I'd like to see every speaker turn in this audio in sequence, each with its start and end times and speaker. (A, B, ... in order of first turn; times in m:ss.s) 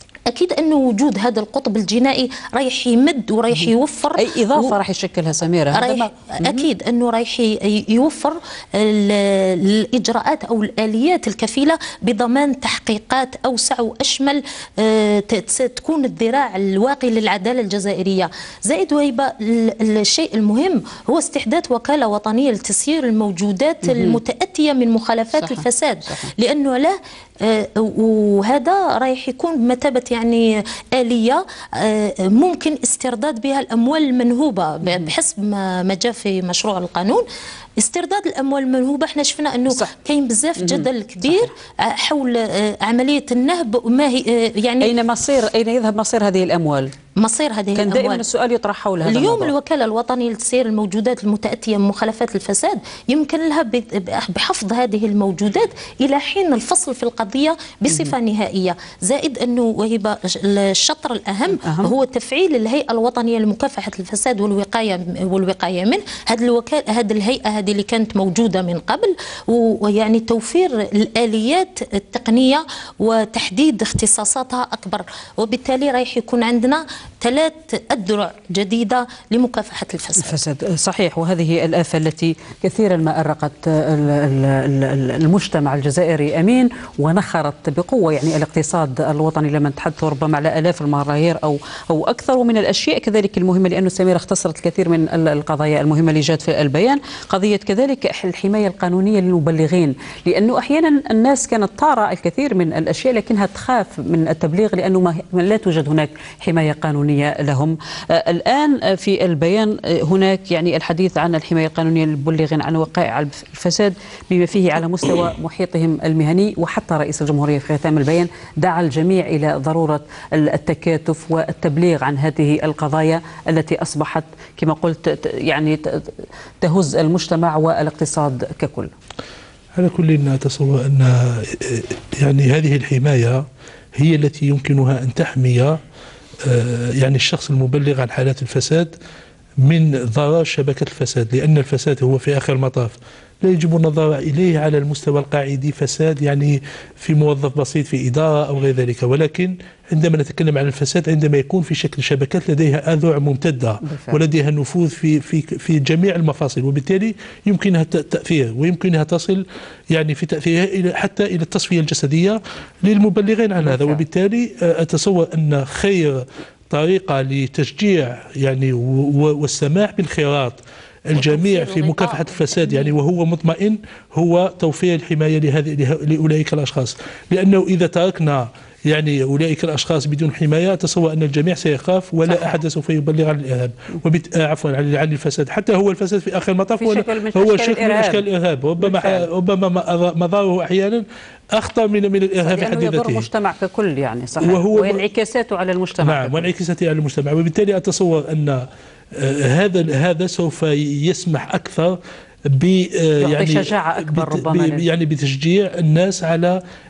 0:00.3-0:04.7 A
0:03.5-0:06.6 B
0:05.7-0:37.2 A
0:23.8-0:24.2 B
0:25.4-0:26.3 B
0:34.8-0:35.1 B
0:37.8-0:44.9 A
0:40.6-0:41.5 B
0:44.8-0:46.9 B
0:47.2-0:48.2 A
0:47.8-0:49.5 B
0:49.0-1:20.4 A
1:01.6-1:01.9 B
1:20.2-2:08.9 B
2:09.7-2:15.8 C
2:16.4-2:18.9 C
2:19.6-3:13.2 C
2:33.8-2:34.2 B
2:43.6-2:44.0 B
2:51.1-2:52.9 A
3:02.3-3:02.5 B
3:06.8-3:08.2 B
3:08.8-3:09.2 B
3:12.4-3:16.5 B
3:14.4-3:15.0 C
3:16.0-3:22.0 C
3:22.5-3:26.6 C
3:23.2-3:24.8 B